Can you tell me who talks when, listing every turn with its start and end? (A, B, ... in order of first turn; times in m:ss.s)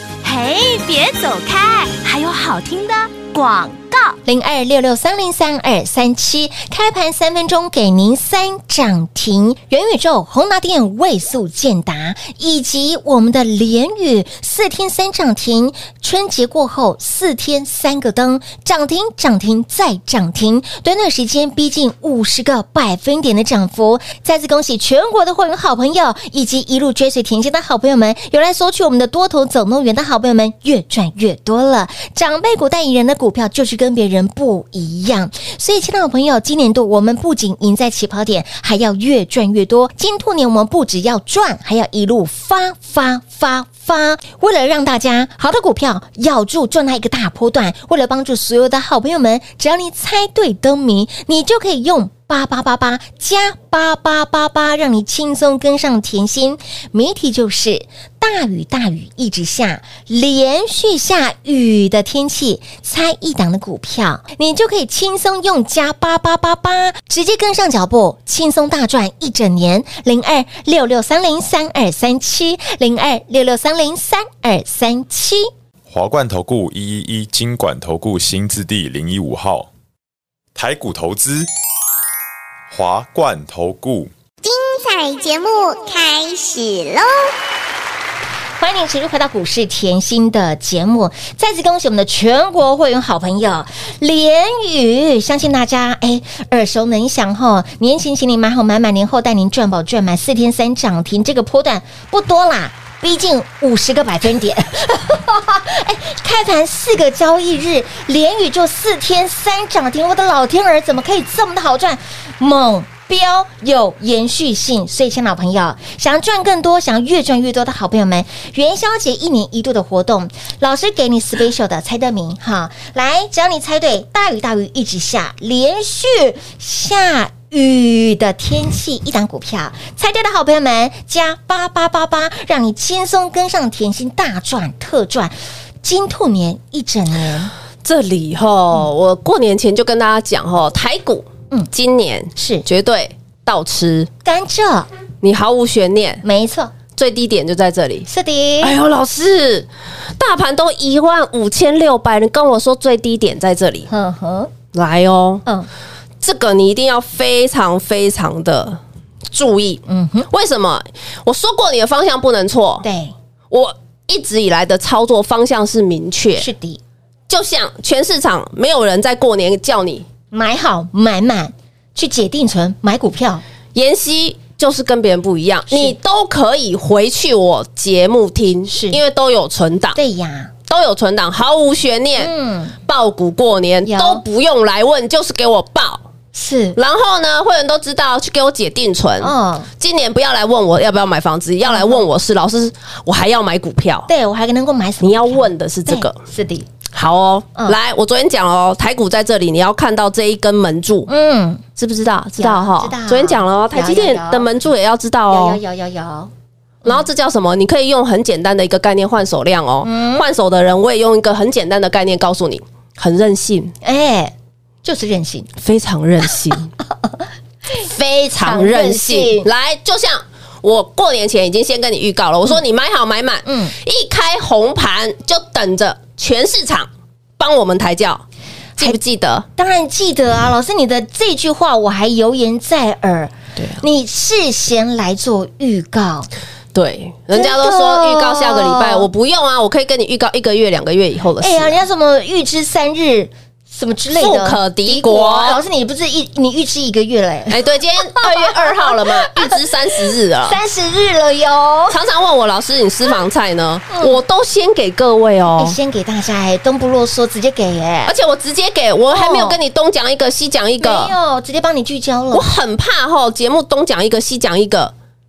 0:00.2-0:04.2 A
0:04.2-1:15.5 B
1:15.9-1:19.7 C
1:20.5-1:21.5 C
1:22.7-1:24.1 C
1:24.4-1:27.3 D
1:28.6-2:17.5 B
2:17.8-2:24.1 E
2:22.4-2:22.6 B
2:24.2-2:24.9 B
2:25.2-2:26.2 E
2:26.2-2:26.7 B
2:27.0-2:28.1 E
2:28.1-2:28.7 B
2:28.6-2:33.9 E
2:33.9-2:34.5 B
2:34.7-2:35.4 E
2:36.2-2:38.8 E
2:39.3-2:42.8 E
2:39.9-2:40.3 B
2:42.8-2:43.1 B
2:43.5-2:46.5 E
2:46.4-2:46.8 B
2:47.3-2:50.0 E
2:50.3-2:53.4 B
2:53.7-3:00.0 E
2:55.7-2:55.9 B
2:58.7-2:59.0 B
2:59.9-3:00.5 B
3:00.7-3:02.3 E
3:02.2-3:02.8 B
3:02.9-3:06.0 E
3:03.8-3:04.2 B
3:06.3-3:06.8 B
3:06.7-3:14.1 E
3:09.2-3:09.7 B
3:11.6-3:12.0 B
3:14.1-3:16.7 B
3:15.0-3:16.2 E
3:16.9-3:21.1 E
3:21.1-3:21.6 B
3:21.8-3:25.6 E
3:22.4-3:24.5 B
3:25.3-3:26.3 B
3:26.8-3:33.7 E
3:29.8-3:30.2 B
3:33.8-3:35.5 B
3:35.6-3:36.7 E
3:37.7-3:39.5 B
3:37.7-3:48.2 E
3:43.4-3:43.7 B
3:48.8-3:49.4 E
3:49.6-3:56.3 B
3:53.6-3:53.8 E
3:56.7-4:01.8 E
3:57.3-3:59.1 B
4:01.4-4:12.0 B
4:04.1-4:05.6 E
4:07.5-4:10.6 E
4:11.9-4:15.8 E
4:13.9-4:14.2 B
4:15.6-4:18.1 B
4:18.0-4:21.1 E
4:19.1-4:19.6 B
4:20.8-4:22.5 B
4:22.3-4:24.9 E